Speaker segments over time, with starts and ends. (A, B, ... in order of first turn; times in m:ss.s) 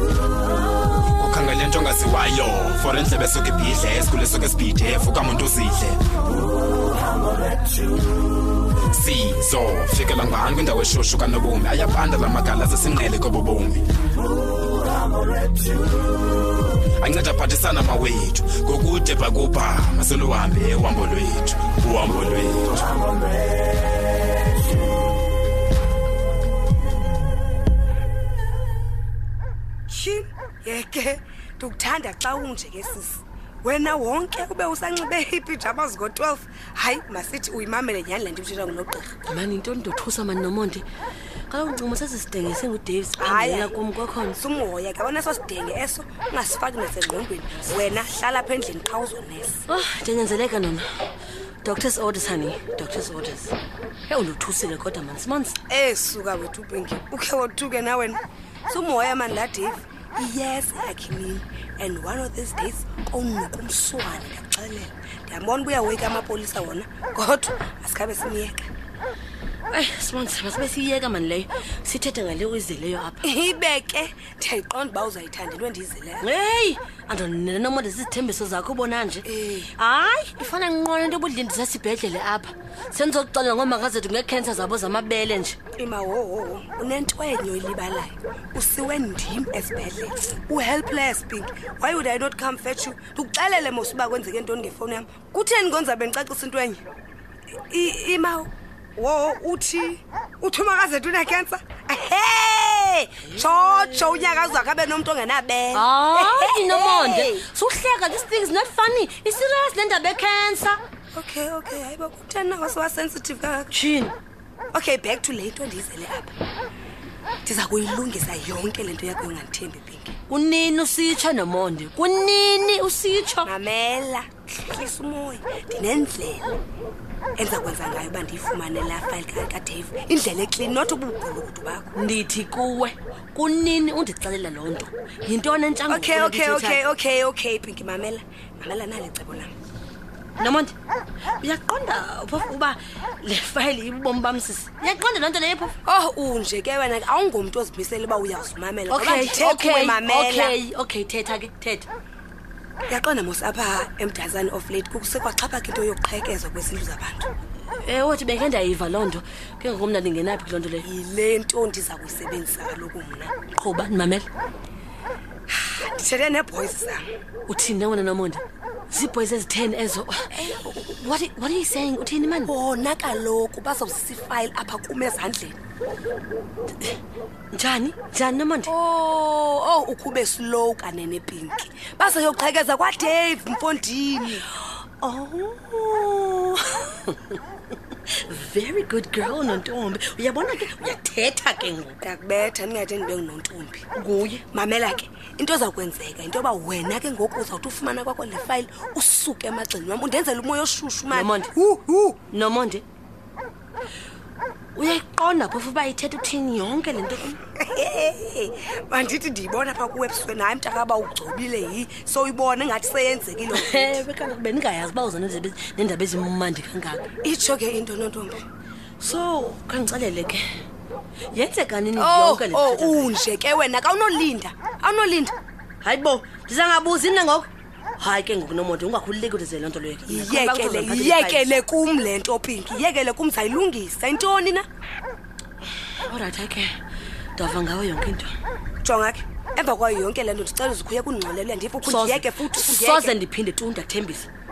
0:01.1-0:06.0 A
0:08.9-0:13.9 A
0:17.0-0:22.9 A
0:29.9-0:39.2 B
0:39.2-0:40.8 C
0:41.5-0:44.4 C
0:43.2-0:43.7 B
0:44.4-0:49.6 B
0:49.7-0:50.9 C
0:51.6-0:53.6 C
0:54.1-0:55.6 C
0:55.7-1:08.7 B
1:09.7-1:13.2 C
1:13.2-1:16.3 B
1:16.2-1:25.6 C
1:19.2-1:19.7 B
1:25.7-1:36.8 B
1:37.7-1:47.4 B
1:43.3-1:44.5 C
1:45.7-1:50.8 C
1:51.1-1:53.7 B
1:53.7-1:54.1 C
1:54.7-1:56.3 B
1:57.4-2:00.1 B
2:00.3-2:03.5 C
2:03.4-2:06.6 B
2:07.4-2:11.9 B
2:11.9-2:16.8 C
2:15.9-2:19.5 B
2:20.4-2:20.7 C
2:21.4-2:25.8 C
2:25.8-2:30.6 B
2:28.9-2:31.9 C
2:32.9-2:37.3 B
2:37.8-2:40.8 C
2:40.8-2:43.3 B
2:43.5-2:44.3 C
2:45.5-2:47.0 B
2:47.5-2:50.3 C
2:50.3-2:51.0 B
2:51.0-2:52.5 C
2:52.4-2:55.5 B
2:57.5-2:58.7 C
2:58.7-3:04.5 B
3:05.0-3:07.4 C
3:08.1-3:12.0 C
3:12.0-3:13.8 B
3:14.0-3:14.4 C
3:14.5-3:22.2 B
3:21.1-3:21.5 C
3:22.3-3:22.8 C
3:24.7-3:27.4 C
3:27.6-3:34.0 B
3:33.5-3:37.0 C
3:37.2-3:38.4 B
3:39.0-3:40.4 C
3:41.3-3:43.1 C
3:42.0-3:45.3 B
3:45.8-3:51.5 C
3:50.1-3:54.6 B
3:56.0-3:56.7 C
3:57.4-3:58.3 C
3:58.8-4:03.1 B
4:01.8-4:04.3 C